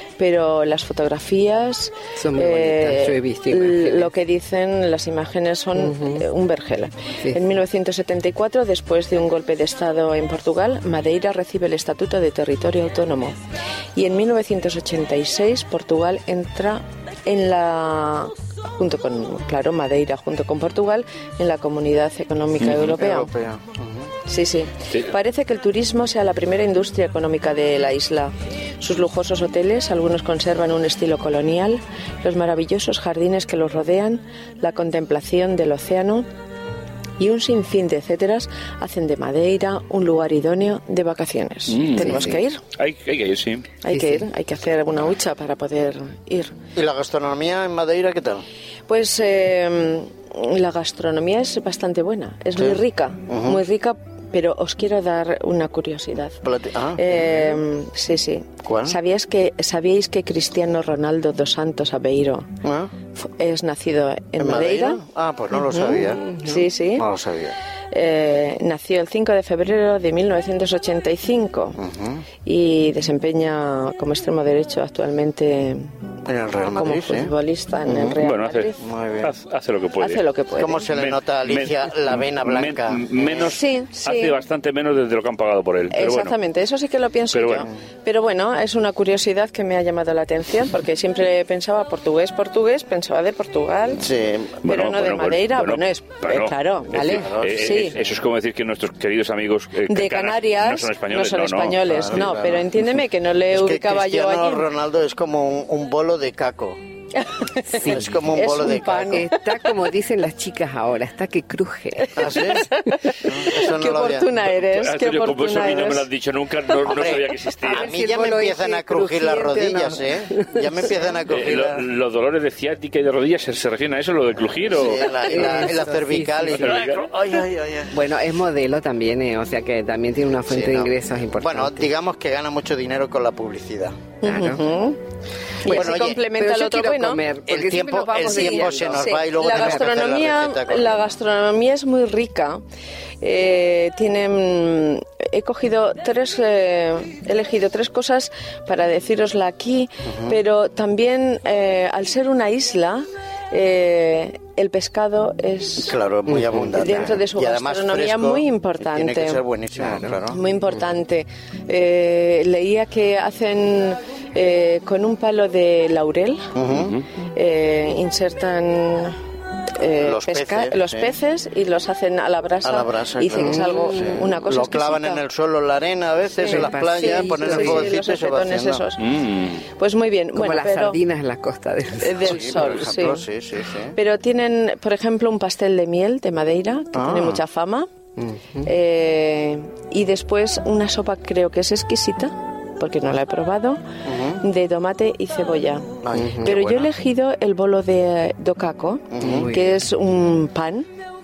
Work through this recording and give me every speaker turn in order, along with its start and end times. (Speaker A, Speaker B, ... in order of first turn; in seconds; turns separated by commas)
Speaker A: 0.2-13.4, Speaker B: 2.2-4.1, Speaker B: 5.8-6.2, Speaker A: 13.9-23.3, Speaker C: 22.6-23.0, Speaker D: 23.0-24.0, Speaker A: 24.2-36.2, Speaker A: 37.2-42.6, Speaker C: 41.7-42.2, Speaker B: 42.0-42.4, Speaker C: 42.8-43.8, Speaker A: 43.8-46.5, Speaker B: 43.9-44.2, Speaker D: 46.8-48.4, Speaker A: 48.9-56.4, Speaker D: 52.6-53.6, Speaker D: 56.4-57.2, Speaker A: 57.0-62.5, Speaker D: 58.6-59.0, Speaker D: 62.6-62.9, Speaker A: 63.1-65.0, Speaker D: 64.4-66.3, Speaker A: 65.6-67.0, Speaker B: 66.3-66.6, Speaker D: 67.0-67.5, Speaker A: 67.9-71.8, Speaker D: 71.8-72.2, Speaker A: 72.4-75.9, Speaker D: 76.2-77.3, Speaker A: 76.7-78.8, Speaker D: 77.9-78.2, Speaker C: 78.2-80.2, Speaker D: 78.8-79.3, Speaker A: 80.0-80.9, Speaker D: 80.6-83.5, Speaker C: 80.9-86.3, Speaker A: 83.4-84.4, Speaker A: 85.9-94.1, Speaker C: 87.3-87.7, Speaker D: 93.9-94.6, Speaker A: 94.6-98.0, Speaker C: 94.6-102.3, Speaker D: 96.9-98.0, Speaker A: 99.9-104.7, Speaker D: 101.9-102.7, Speaker D: 103.5-106.8, Speaker A: 107.2-109.3, Speaker B: 107.7-108.1, Speaker D: 107.8-109.3, Speaker B: 109.1-112.4, Speaker D: 112.2-112.7, Speaker A: 112.3-116.1, Speaker D: 113.2-114.3, Speaker C: 114.5-117.9, Speaker A: 116.7-117.1, Speaker D: 116.9-121.8, Speaker B: 117.6-120.6, Speaker C: 121.3-125.6, Speaker D: 124.7-127.9, Speaker B: 125.2-126.8, Speaker C: 126.5-127.1, Speaker B: 127.9-131.9, Speaker D: 130.5-134.0, Speaker A: 134.2-135.0, Speaker B: 134.2-134.6, Speaker A: 135.6-137.2, Speaker D: 135.6-136.3, Speaker B: 135.7-139.9, Speaker D: 137.5-141.1, Speaker A: 138.3-142.6, Speaker A: 143.2-155.9, Speaker D: 150.1-150.3, Speaker D: 155.8-160.4, Speaker B: 156.3-157.1, Speaker A: 156.8-159.4, Speaker B: 159.8-160.2, Speaker A: 160.3-166.5, Speaker D: 166.5-166.9, Speaker C: 166.7-167.1, Speaker A: 167.3-169.2, Speaker A: 169.8-175.2, Speaker D: 170.0-171.1, Speaker D: 172.6-178.8, Speaker B: 173.4-173.7, Speaker A: 176.4-179.1, Speaker B: 176.4-177.9, Speaker C: 179.0-179.6, Speaker A: 179.7-181.0, Speaker B: 180.3-182.7, Speaker A: 182.0-183.2, Speaker D: 182.2-184.0, Speaker A: 183.9-187.9, Speaker D: 186.9-187.4, Speaker B: 188.2-188.7, Speaker A: 188.6-193.8, Speaker D: 194.1-194.4, Speaker A: 194.4-200.9, Speaker D: 196.0-196.9, Speaker B: 196.1-196.5, Speaker D: 199.1-199.5, Speaker B: 199.2-199.8